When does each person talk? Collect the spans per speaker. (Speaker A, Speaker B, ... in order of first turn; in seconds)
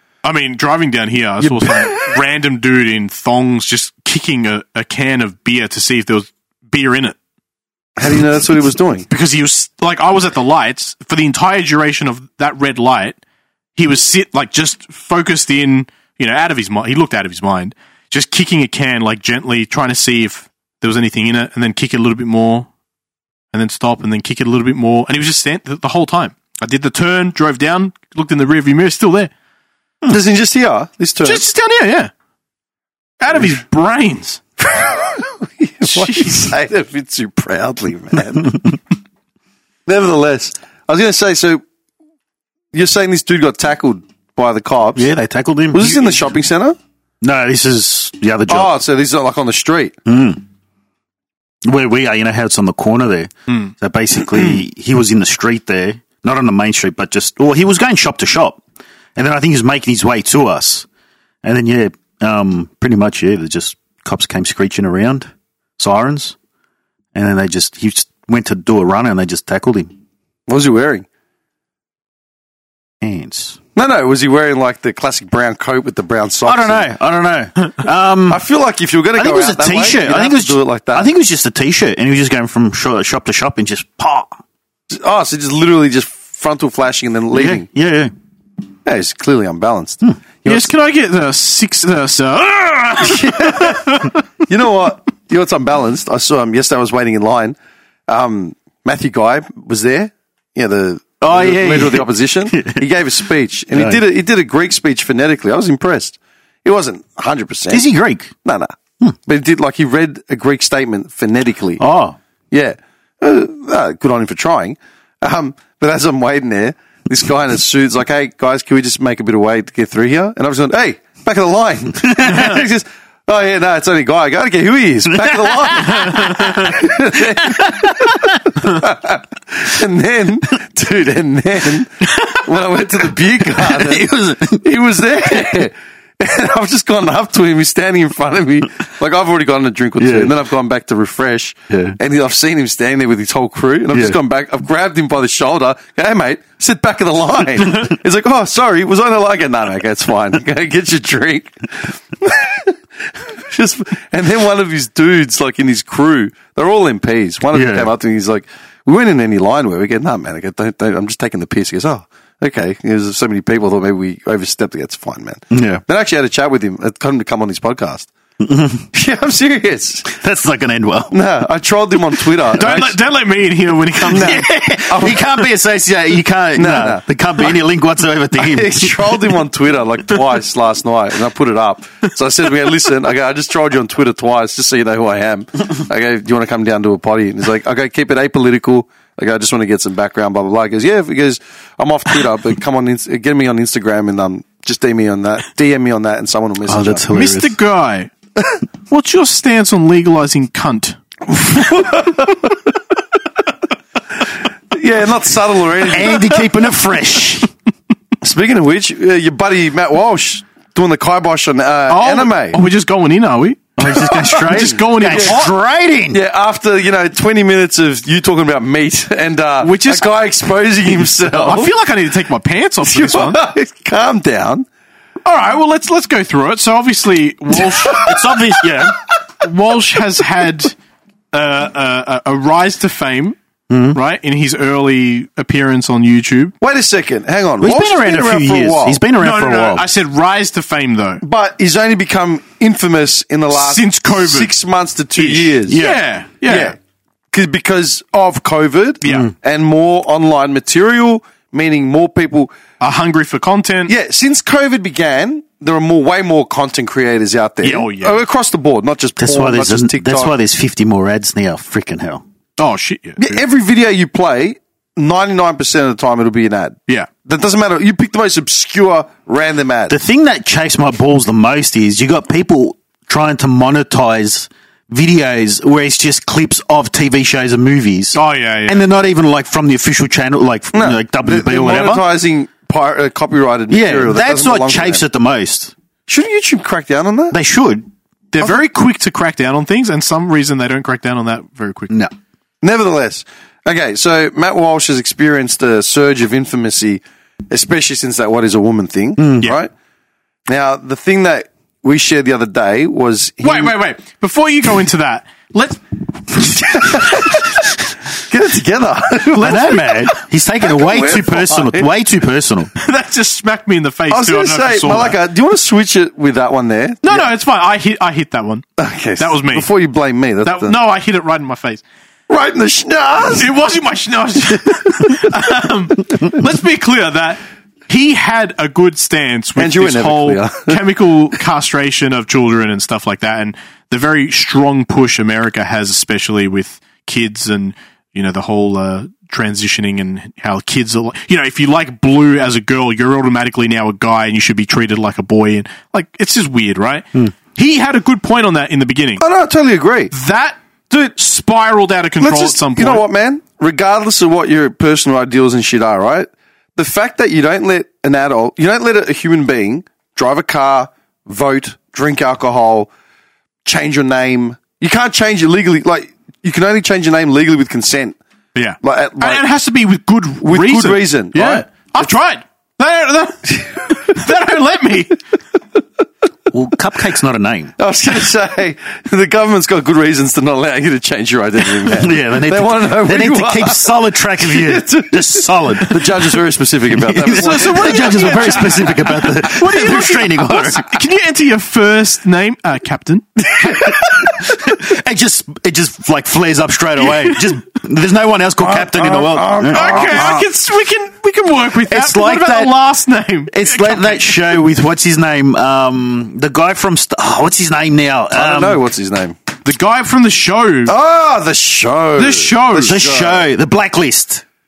Speaker A: 0.2-7.2, 9.1-13.2, 13.8-22.7, 23.5-29.3, 31.2-32.1, 33.2-34.4, 35.8-36.5, 90.4-94.1, 172.5-174.4, 197.1-198.1, 198.9-201.0, 211.9-215.5, 219.6-220.1, 221.2-223.4, 225.2-228.1, 229.4-230.8, 231.3-233.3, 233.9-236.5, 239.2-241.2, 243.5-244.5, 245.2-246.7, 249.0-249.3, 252.8-253.9, 257.6-258.2, 262.6-263.3, 278.1-278.8, 288.3-291.9, 303.4-307.4, 309.4-310.1, 312.8-315.2, 317.0-318.7, 319.2-319.7, 320.4-321.8, 323.4-349.2, 350.1-350.6, 351.1-353.0, 368.5-375.2, 387.3-393.9, 399.7-404.6, 409.6-410.9, 412.1-413.0
Speaker B: 1.4-2.1, 8.0-9.1, 30.0-31.4, 34.6-38.7, 39.9-41.6, 42.7-45.1, 45.7-46.8, 48.5-50.0, 70.5-71.0, 73.8-76.9, 78.3-81.1, 84.9-87.7, 88.8-90.7, 93.0-97.6, 98.1-107.9, 108.4-111.8, 112.5-168.1, 168.9-170.1, 171.1-173.0, 174.1-175.4, 176.6-177.0, 178.4-197.0, 201.3-202.5, 204.7-206.5, 208.2-212.6, 213.8-215.4, 216.1-221.7, 222.8-224.7, 236.6-239.0, 241.2-245.8, 246.4-246.8, 247.3-252.5, 253.9-260.3, 263.2-269.9, 280.7-285.0, 286.1-287.4, 292.6-299.7, 300.5-303.7, 306.6-307.4, 308.2-310.1, 310.6-311.9, 314.1-317.2, 318.8-320.7, 322.3-323.5, 329.6-330.8, 349.2-350.1, 350.9-351.1, 352.2-362.9, 363.6-368.2, 368.8-369.4, 370.4-372.1, 377.8-389.1, 398.6-400.4, 408.3-409.4, 410.9-413.5
Speaker C: 44.9-46.2, 47.2-48.7, 50.0-50.4, 51.6-58.6, 59.1-60.9, 61.4-66.3, 67.1-69.9, 73.0-73.6, 76.5-78.4, 79.1-84.4, 87.3-88.1, 101.2-102.8, 103.7-104.0, 107.7-108.3, 111.8-112.2, 122.0-122.5, 125.1-128.5, 133.6-134.6, 140.0-140.3, 141.7-142.0, 143.9-144.2, 157.5-157.9, 165.5-165.8, 168.4-168.8, 170.0-171.2, 174.1-179.2, 196.7-197.6, 205.8-207.5, 213.8-216.2, 227.9-229.0, 233.7-234.0, 237.6-239.8, 245.7-246.0, 249.1-249.3, 259.2-262.2, 269.9-282.1, 283.7-285.7, 287.3-287.9, 299.2-299.5, 309.4-312.7, 376.5-377.7, 381.8-386.4, 386.9-391.0, 393.7-400.4, 401.9-402.8, 403.5-408.8, 412.8-414.4